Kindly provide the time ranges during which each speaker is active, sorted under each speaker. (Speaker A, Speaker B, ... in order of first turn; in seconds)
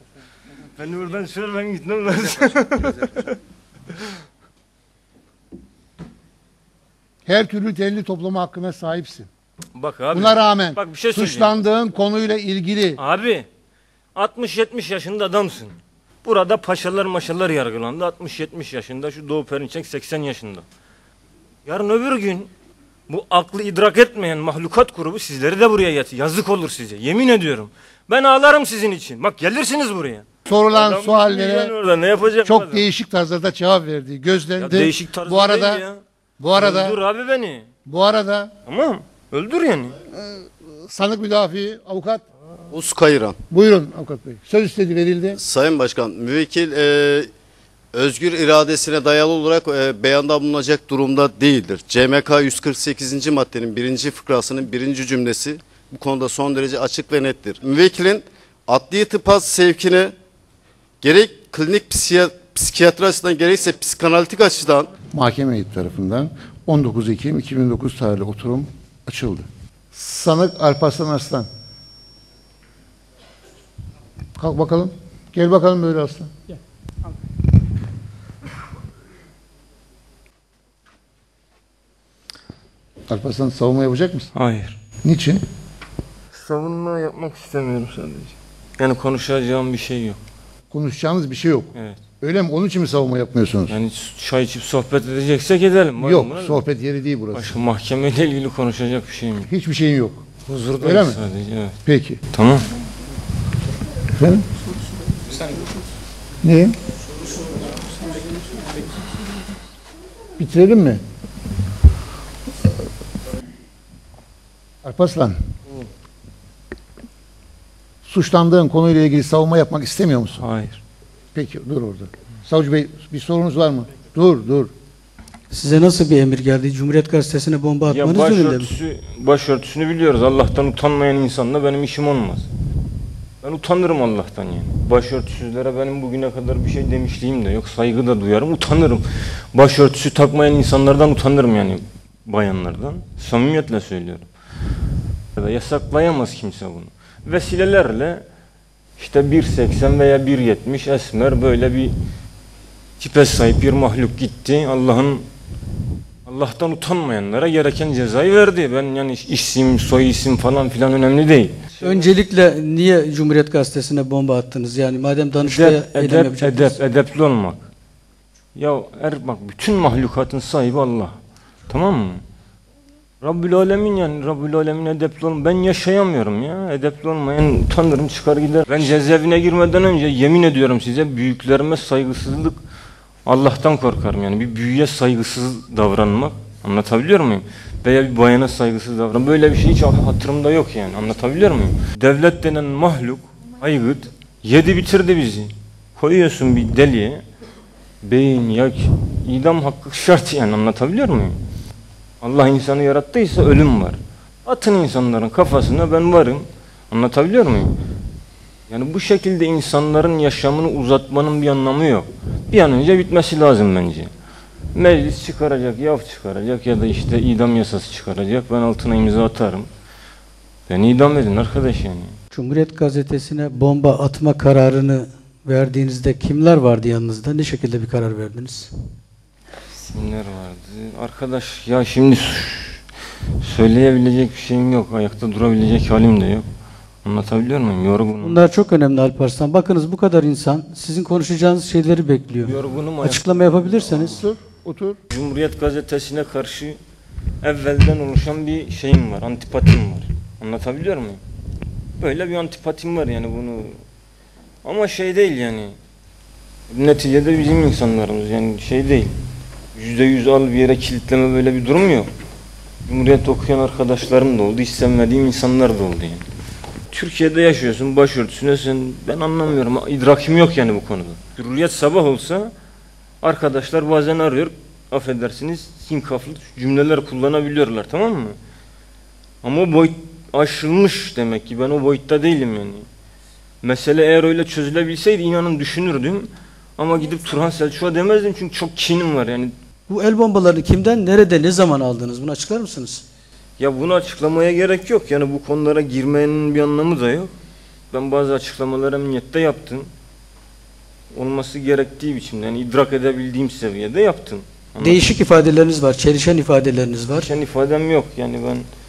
Speaker A: 0.8-3.3, 9.8-11.5, 13.0-13.4, 14.1-20.6, 21.6-22.5, 23.1-32.8, 34.6-36.0, 36.5-37.7, 38.7-40.0, 84.3-84.8, 86.3-90.2, 93.7-96.6, 97.3-99.5, 100.5-101.8, 102.3-102.7, 120.4-120.8, 127.9-132.5, 133.4-144.3, 145.3-148.2, 149.0-151.9, 153.0-155.2, 156.2-162.1, 165.4-167.7, 168.6-171.2, 171.7-172.2, 173.2-182.6, 183.2-197.2, 198.0-201.4, 202.2-207.8, 208.7-214.1, 214.7-219.7, 220.7-222.2, 229.9-232.8, 233.4-236.5, 237.0-238.4, 242.4-243.2, 245.1-246.8, 247.4-251.2, 252.0-253.8, 254.6-255.8, 256.7-259.1, 259.7-262.1, 262.9-266.2, 266.9-272.5, 273.2-278.4, 279.4-282.9, 283.6-289.5, 293.6-297.3, 297.9-299.9, 301.1-305.2, 307.1-308.6
Speaker B: 7.2-9.3, 10.1-13.0, 30.5-31.7, 32.4-35.8, 36.4-37.0, 37.9-38.5, 40.1-42.2, 43.5-45.4, 65.1-71.5, 74.4-76.3, 83.1-84.3, 85.0-85.4, 90.7-93.8, 96.0-97.5, 99.5-101.2, 101.8-102.2, 104.1-104.5, 106.4-106.7, 110.4-111.0, 114.8-115.4, 118.0-120.4, 121.3-124.7, 243.8-245.0
Speaker C: 42.7-43.4, 45.3-47.3, 47.9-60.1, 61.0-64.9
Speaker D: 125.5-128.7, 161.8-166.8, 222.3-228.7, 238.2-244.2, 289.9-293.0, 304.8-307.3